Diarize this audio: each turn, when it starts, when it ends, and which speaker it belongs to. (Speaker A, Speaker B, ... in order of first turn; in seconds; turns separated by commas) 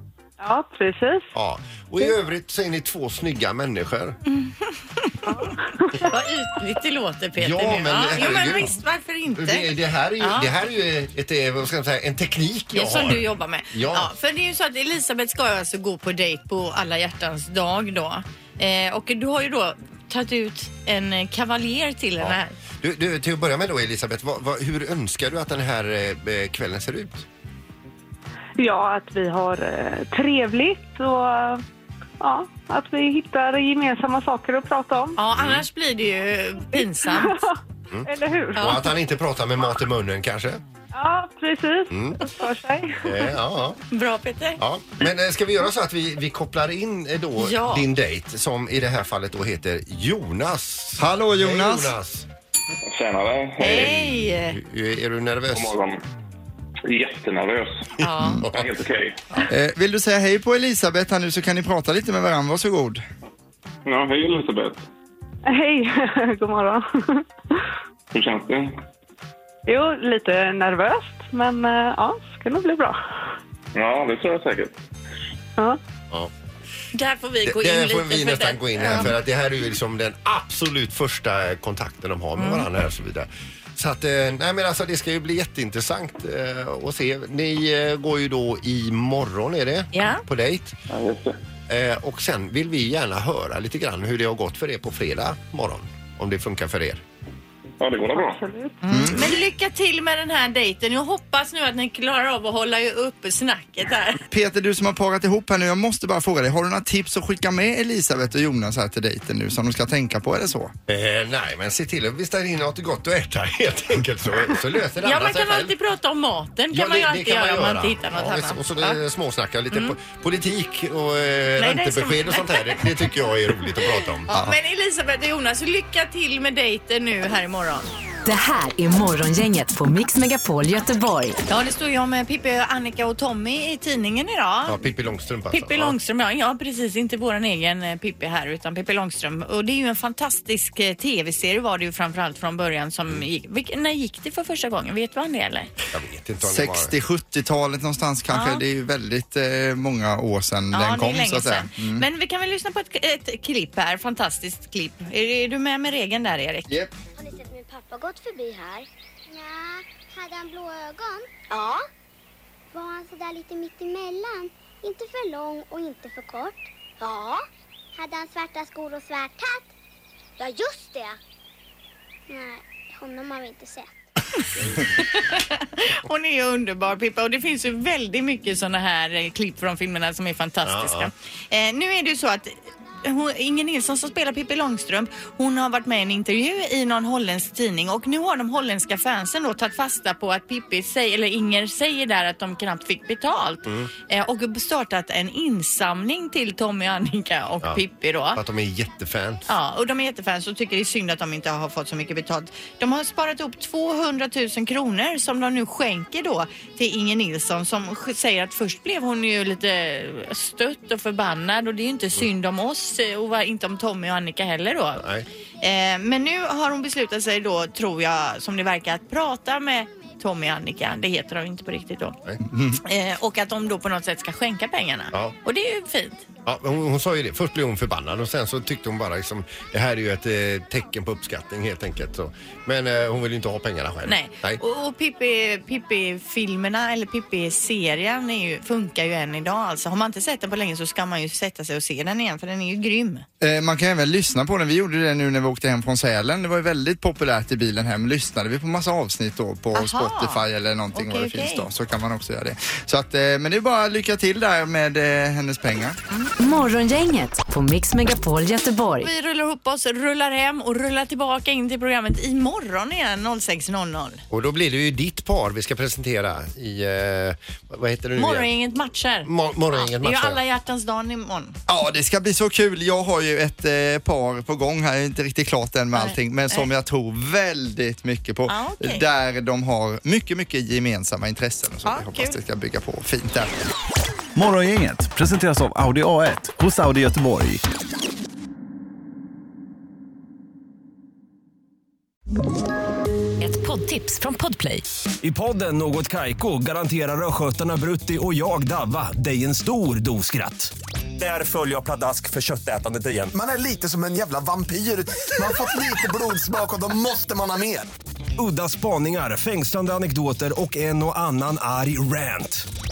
Speaker A: 0.4-1.3, Speaker B: 1.3-4.2, Speaker C: 4.3-5.2, Speaker A: 5.3-6.1, Speaker C: 6.0-9.7, Speaker B: 7.4-8.8, Speaker B: 9.3-14.1, Speaker C: 10.2-10.5, Speaker C: 12.7-22.5, Speaker B: 22.2-27.2, Speaker A: 28.6-31.6, Speaker A: 32.2-35.1, Speaker C: 35.1-37.4, Speaker B: 35.3-35.6, Speaker A: 36.7-38.8, Speaker B: 37.9-40.6, Speaker C: 38.5-38.9, Speaker A: 40.9-43.3, Speaker B: 41.9-42.2, Speaker B: 43.0-43.8, Speaker C: 43.9-44.6, Speaker B: 44.6-52.3, Speaker C: 47.4-47.9, Speaker D: 51.0-51.9, Speaker E: 52.9-53.9, Speaker C: 53.6-54.6, Speaker B: 53.6-55.7, Speaker E: 55.5-56.0, Speaker E: 56.9-57.9, Speaker C: 58.0-58.4, Speaker B: 58.4-58.7, Speaker E: 58.5-59.2, Speaker D: 59.5-63.0, Speaker E: 63.9-64.8, Speaker A: 65.5-67.2, Speaker E: 68.1-68.7, Speaker A: 69.7-73.0, Speaker E: 73.7-74.7, Speaker C: 76.9-79.1, Speaker B: 77.5-90.8, Speaker C: 82.4-82.7, Speaker C: 89.9-90.2, Speaker E: 90.9-91.4, Speaker B: 91.7-97.0, Speaker E: 97.8-98.4, Speaker A: 98.4-98.8, Speaker C: 98.8-104.2, Speaker D: 98.9-99.3, Speaker D: 104.3-110.7, Speaker B: 110.9-115.7, Speaker C: 115.0-119.0, Speaker B: 116.7-124.3, Speaker C: 121.6-122.9, Speaker C: 124.3-127.9, Speaker D: 124.3-124.5, Speaker F: 128.2-131.4, Speaker C: 131.5-134.8, Speaker B: 134.7-135.9, Speaker C: 135.5-145.7, Speaker B: 145.9-146.9, Speaker D: 146.4-152.1, Speaker C: 148.3-148.6, Speaker C: 150.7-156.7, Speaker G: 157.1-161.8, Speaker G: 162.7-169.7, Speaker G: 170.4-171.2, Speaker G: 172.3-173.9, Speaker C: 174.7-198.4, Speaker B: 180.6-181.1, Speaker B: 198.3-199.4, Speaker C: 199.5-215.0, Speaker B: 215.0-215.2, Speaker C: 215.6-222.2, Speaker D: 222.4-222.8, Speaker C: 222.8-226.2, Speaker B: 226.4-234.6, Speaker C: 234.0-243.2, Speaker D: 243.4-256.0, Speaker C: 249.7-251.7, Speaker F: 256.4-259.1, Speaker C: 259.0-264.2, Speaker B: 264.3-268.5, Speaker C: 268.1-271.6, Speaker B: 269.2-270.4, Speaker D: 271.7-283.5, Speaker C: 275.9-276.7, Speaker C: 278.5-279.0, Speaker C: 281.8-282.4, Speaker H: 284.3-287.6, Speaker F: 293.4-294.8, Speaker H: 295.2-303.3, Speaker I: 303.3-307.9, Speaker H: 308.4-312.6